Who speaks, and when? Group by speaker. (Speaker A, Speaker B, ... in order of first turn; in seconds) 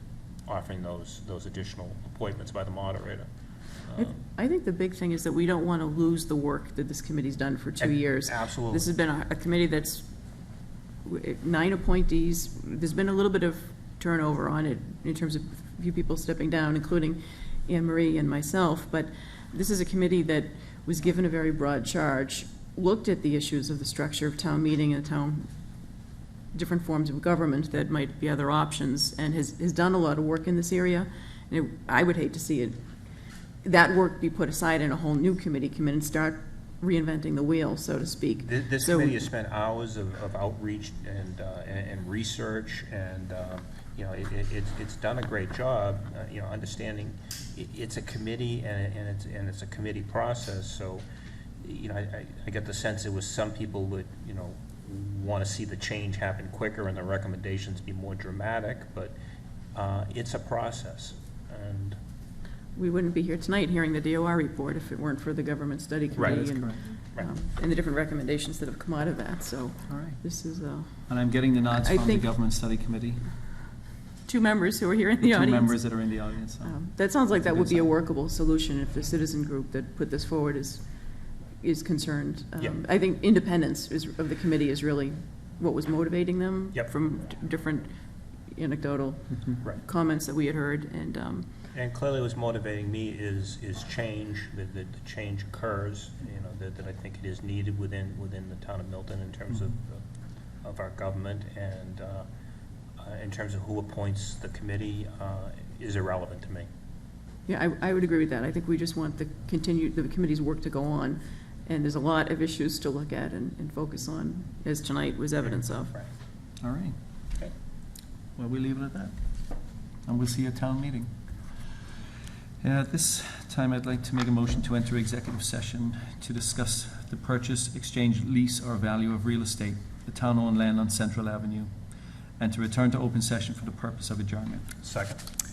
Speaker A: 0.5-3.3, 3.9-4.2, 7.8-8.8, 38.4-51.0, 51.6-59.1, 59.7-62.0, 66.2-66.4, 91.7-100.0, 100.6-102.2, 103.0-106.7, 115.4-116.1, 134.8-135.2
Speaker B: 4.0-10.1, 11.0-25.5, 26.5-32.8, 33.6-39.2, 62.8-71.0, 71.8-72.2, 74.2-76.0, 76.6-80.8, 81.6-87.9, 88.5-91.5, 107.5-115.9
Speaker C: 66.2-66.8, 69.9-70.2, 71.1-73.3, 75.2-76.8, 77.3-77.9, 116.6-117.0, 118.3-119.2, 120.0-121.1, 122.6-131.7, 132.4-134.7